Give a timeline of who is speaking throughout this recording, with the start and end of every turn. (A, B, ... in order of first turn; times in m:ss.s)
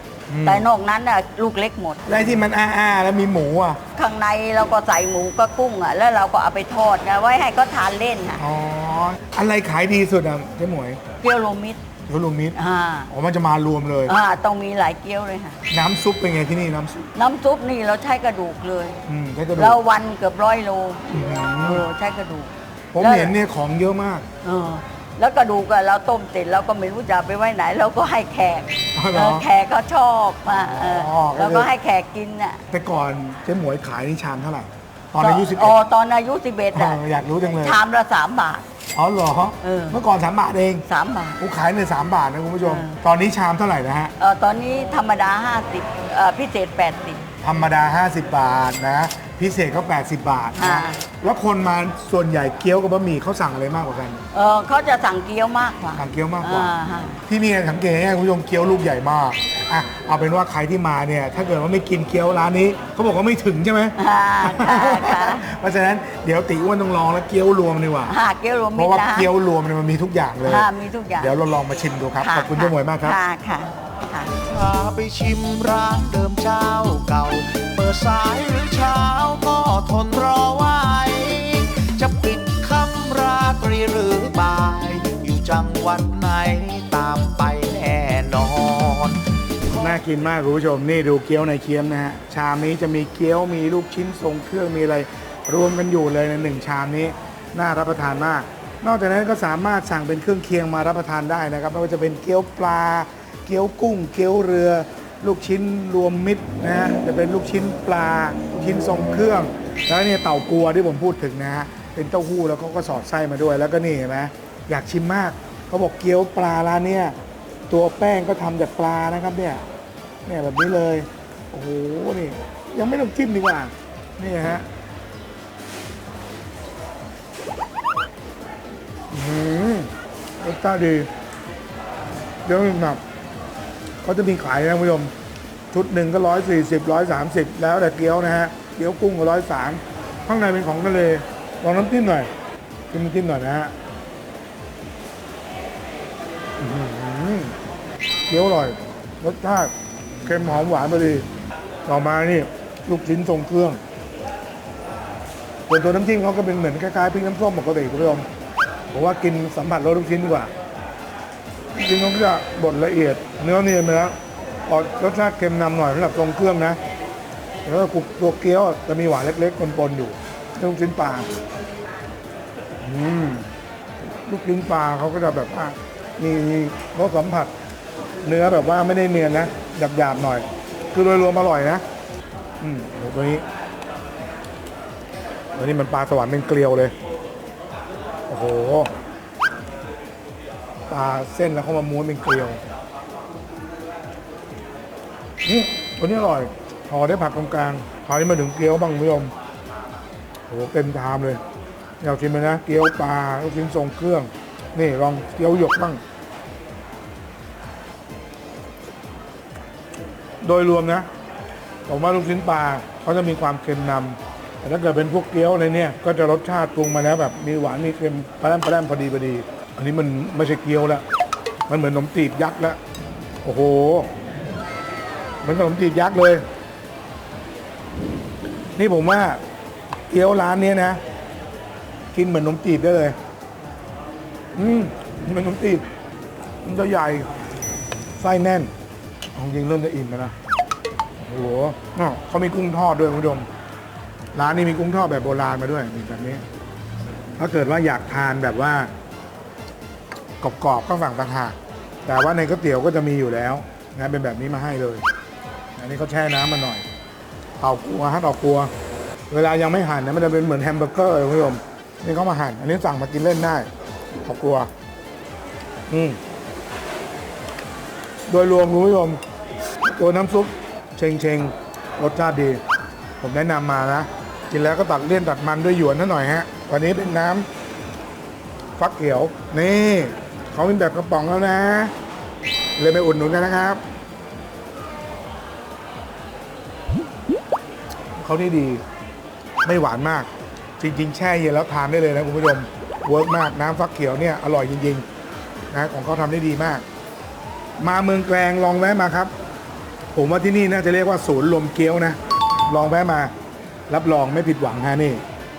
0:00.3-0:00.7 A
0:00.4-0:02.0 B
0:02.0-0:03.8 A
0:04.0-0:08.4 B
0:08.4-0:11.0 A
0:11.2-0:11.8 B
0:12.1-0:12.6 A
0:12.5-0:13.1 B
0:13.1-0:14.2 A
0:14.1-0:15.6 B
0:15.7-0:17.1 A
0:17.2-0:19.0 B
0:19.0-0:19.8 A
0:19.6-0:21.0 B
0:21.1-0:21.8 A
0:21.6-0:23.3 B
0:22.9-0:24.2 A
0:24.4-0:32.6 B
0:28.9-0:29.5 A
0:30.5-0:31.7 A
0:32.7-0:35.8 A
0:35.2-0:38.6 B
0:36.7-0:37.8 A
0:38.9-0:40.8 A
0:39.6-0:40.0 B
0:40.9-0:41.4 B
0:41.4-0:44.1 A
0:42.6-0:43.0 B
0:44.2-0:47.2 B
0:47.4-0:54.2 A
0:50.6-0:51.0 B
0:54.3-0:57.2 B
0:55.9-0:56.7 A
0:57.2-1:08.2 A
1:04.0-1:05.4 B
1:08.1-1:09.3 B
1:08.7-1:10.7 A
1:10.4-1:11.3 B
1:11.2-1:13.2 A
1:12.2-1:14.3 B
1:14.4-1:29.9 C
1:29.7-1:57.2 A
1:57.7-1:59.6 A
2:00.2-2:04.7 A
2:09.1-2:11.1 A
2:12.4-2:13.0 A
2:14.0-2:15.1 A
2:15.7-2:22.3 A
2:22.9-2:23.7 A
2:26.6-2:27.6 A
2:28.3-2:31.3 A
2:31.8-2:33.8 A
2:35.7-2:38.3 A
2:38.9-2:40.5 A
2:41.7-2:46.8 A
2:47.6-2:51.3 A
2:52.8-2:53.5 A
2:54.2-2:57.5 A
2:58.2-3:01.8 A
3:02.6-3:03.4 A
3:05.6-3:06.9 A
3:08.3-3:08.9 A
3:10.9-3:12.6 A
3:15.4-3:19.3 A
3:20.5-3:21.4 A
3:22.0-3:26.0 A
3:30.4-3:31.1 A
3:31.9-3:41.0 A
3:41.7-3:42.8 A
3:43.4-3:44.1 A
3:45.4-3:46.4 A
3:48.8-3:49.4 A
3:50.1-3:51.0 A
3:52.1-3:53.2 A
3:54.5-3:55.9 A
3:56.6-3:57.3 A
3:58.2-3:58.7 A
3:59.3-4:00.3 A
4:01.2-4:03.5 A
4:04.3-4:06.4 A
4:07.4-4:08.9 A
4:10.4-4:15.0 A
4:15.8-4:16.8 A
4:17.6-4:18.7 A
4:19.3-4:23.7 A
4:24.2-4:24.7 A
4:25.9-4:26.2 A
4:28.3-4:29.2 A
4:29.8-4:32.6 A
4:33.2-4:37.5 A
4:38.8-4:41.9 A
4:42.8-4:43.8 A
4:48.2-4:48.8 A
4:49.6-4:55.0 A
4:55.7-4:56.8 A
4:57.8-4:59.3 A
5:00.1-5:03.3 A
5:03.9-5:05.2 A